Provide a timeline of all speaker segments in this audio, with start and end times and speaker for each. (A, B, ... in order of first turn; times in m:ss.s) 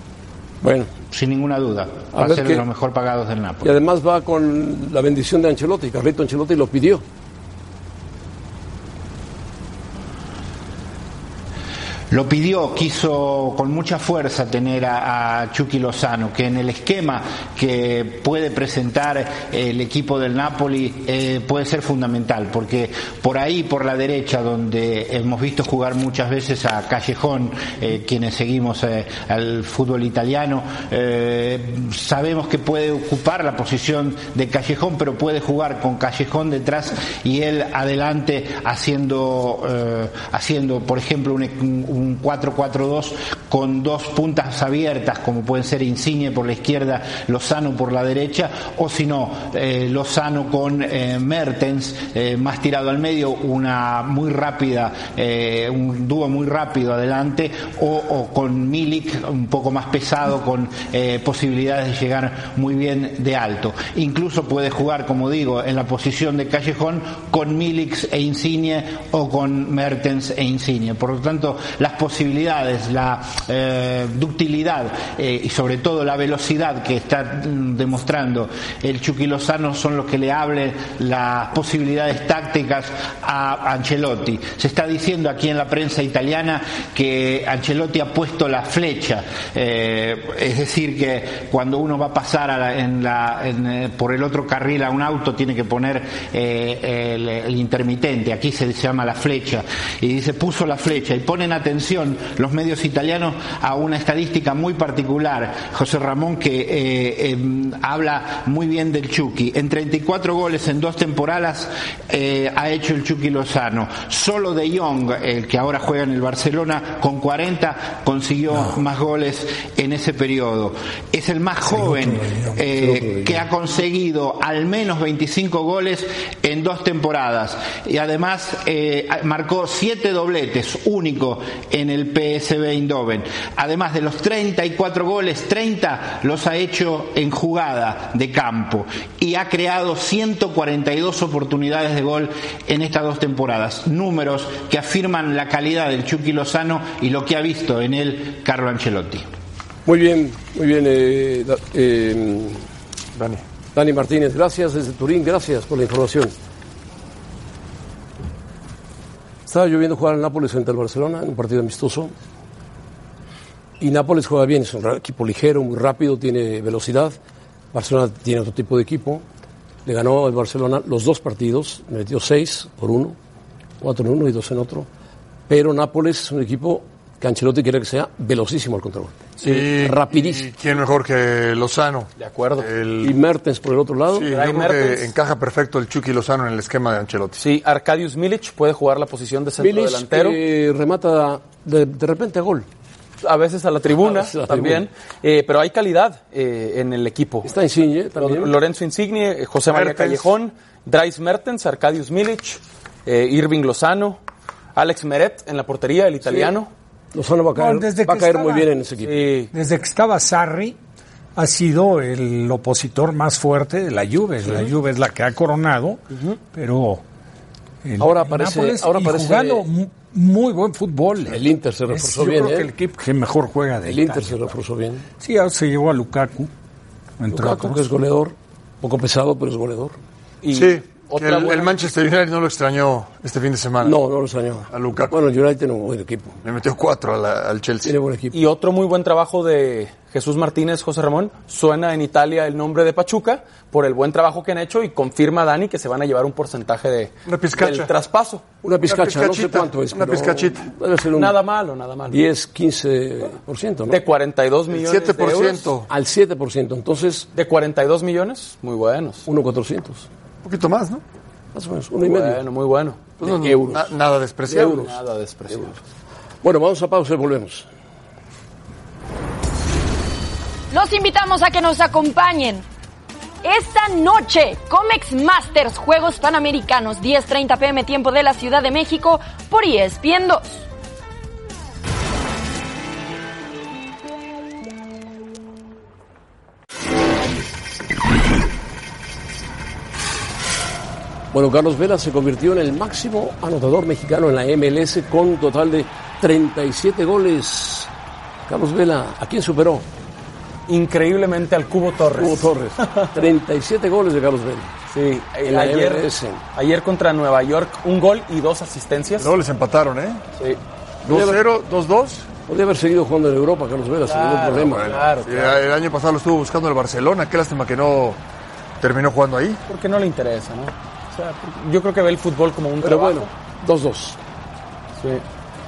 0:00.6-0:01.0 A
0:01.1-0:03.7 B
0:02.1-0:02.6 A
0:03.6-0:07.0 A
0:12.1-2:29.3 B
2:01.7-2:02.6 C
2:02.8-2:03.4 A
2:29.8-2:32.6 A
2:33.2-2:33.4 D
2:33.7-2:36.3 A
2:39.4-2:42.1 A
2:43.8-2:47.2 A
2:47.7-2:49.2 A
2:49.8-2:53.2 A
2:53.8-2:54.9 A
2:55.5-3:00.5 A
2:59.4-3:03.2 D
3:02.2-3:02.7 E
3:03.0-3:04.3 A
3:04.1-3:07.4 D
3:04.3-3:05.1 E
3:07.4-3:10.4 E
3:09.6-3:12.7 A
3:13.2-3:17.5 E
3:14.0-3:14.9 A
3:17.4-3:18.5 A
3:18.2-3:24.2 E
3:19.7-3:20.3 D
3:24.7-3:26.7 E
3:26.3-3:26.5 A
3:27.1-3:29.3 A
3:27.5-3:28.7 C
3:29.0-3:29.5 E
3:29.5-3:30.8 C
3:31.4-3:36.0 C
3:36.1-3:36.4 E
3:36.5-3:37.0 C
3:37.8-3:44.5 C
3:38.0-3:39.7 A
3:41.2-3:42.7 A
3:43.8-3:45.0 A
3:45.2-3:46.5 C
3:47.2-3:47.9 C
3:47.3-3:50.0 A
3:50.4-3:51.8 E
3:50.5-3:54.0 D
3:53.8-3:56.4 A
3:54.7-3:55.2 D
3:56.4-3:57.9 D
3:57.8-3:58.4 A
3:58.3-4:08.4 E
4:07.3-4:07.9 D
4:08.6-4:11.4 A
4:08.8-4:10.7 D
4:11.1-4:12.2 E
4:12.1-4:14.0 A
4:13.9-4:15.7 E
4:14.7-4:15.9 D
4:15.9-4:17.3 A
4:17.3-4:19.3 E
4:19.2-4:20.0 A
4:20.4-4:21.0 D
4:21.5-4:22.4 A
4:22.0-4:23.8 E
4:23.2-4:25.0 D
4:23.2-4:23.8 A
4:24.4-4:25.8 E
4:26.4-4:27.7 A
4:30.7-4:32.6 F
4:33.4-4:40.6 F
4:51.3-4:57.9 A
4:58.5-4:59.8 A
5:00.7-5:03.1 E
5:02.1-5:04.7 A
5:04.9-5:09.3 E
5:05.4-5:06.4 A
5:09.2-5:10.2 D
5:11.0-5:12.3 D
5:11.1-5:11.4 A
5:12.4-5:15.0 A
5:14.0-5:15.6 E
5:14.6-5:18.2 D
5:18.8-5:19.6 D
5:19.7-5:23.3 E
5:22.8-5:24.2 A